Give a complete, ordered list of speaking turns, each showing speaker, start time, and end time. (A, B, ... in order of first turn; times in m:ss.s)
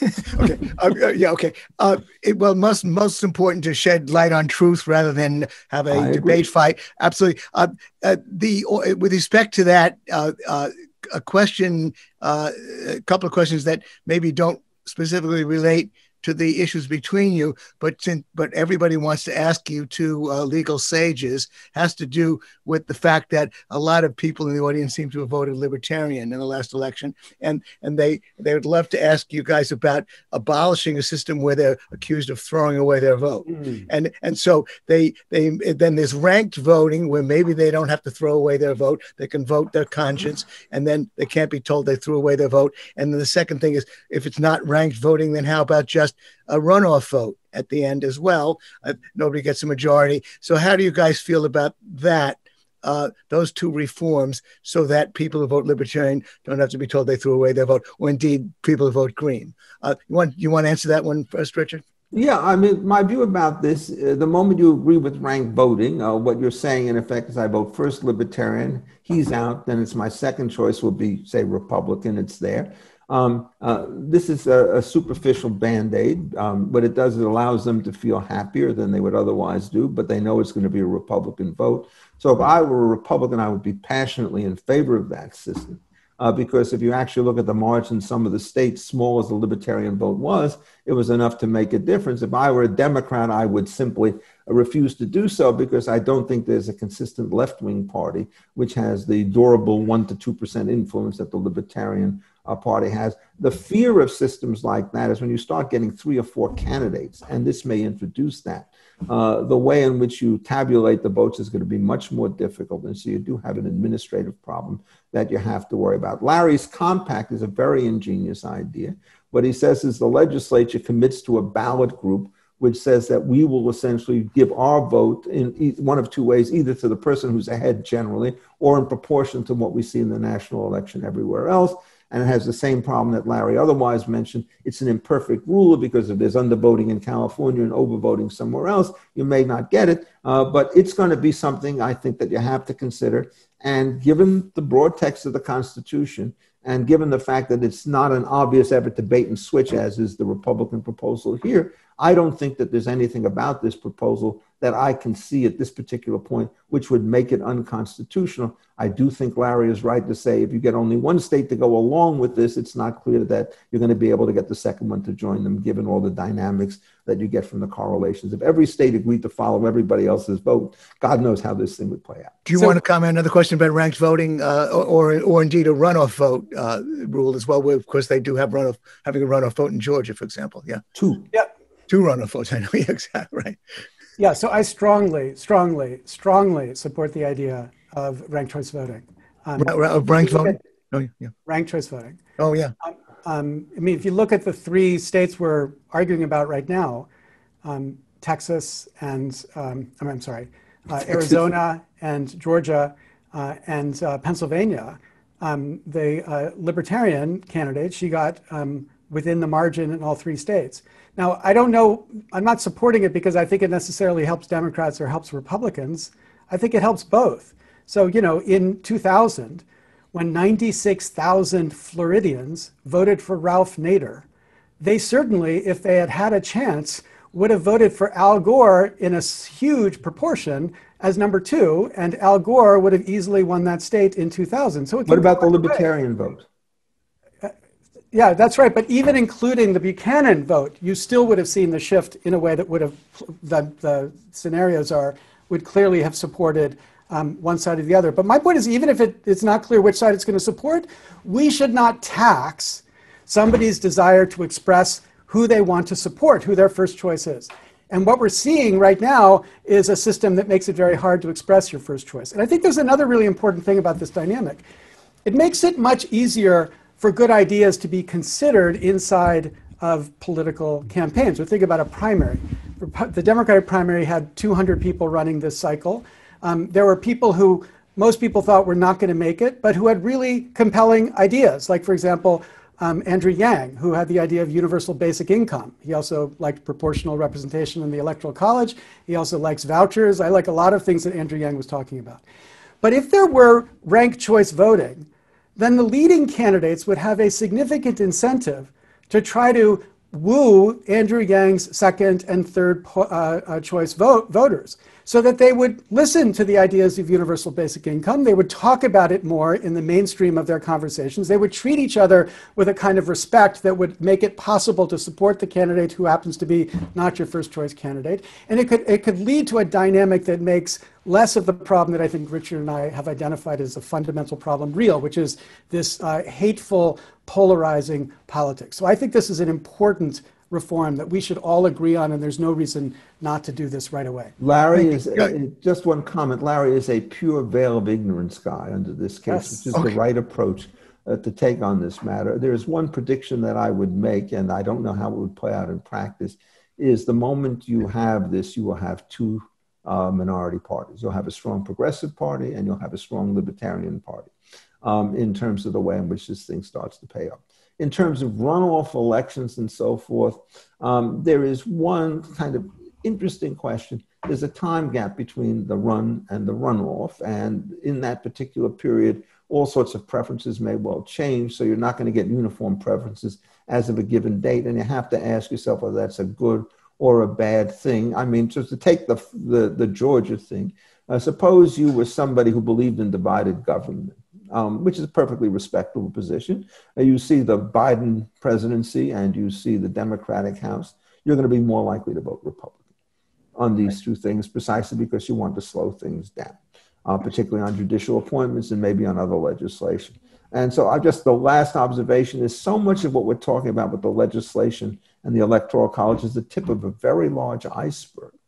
0:00.3-1:01.8 A
0:05.9-0:06.4 B
1:02.1-2:52.4 B
2:52.4-3:00.8 A
3:01.0-3:01.3 B
3:01.9-3:03.6 A
3:04.2-3:10.6 C
3:09.6-3:11.3 A
3:11.5-3:12.2 C
3:12.4-3:12.7 A
3:12.8-3:17.1 C
3:17.6-3:44.2 C
3:21.1-3:21.4 B
3:44.8-3:55.8 C
3:55.1-3:56.5 B
3:58.1-4:24.6 C
4:25.2-4:52.2 C
4:52.8-4:55.1 C
4:55.6-5:34.3 C
5:34.4-5:54.3 B
5:39.3-5:39.7 C
5:54.8-6:32.8 B
6:33.6-6:48.3 B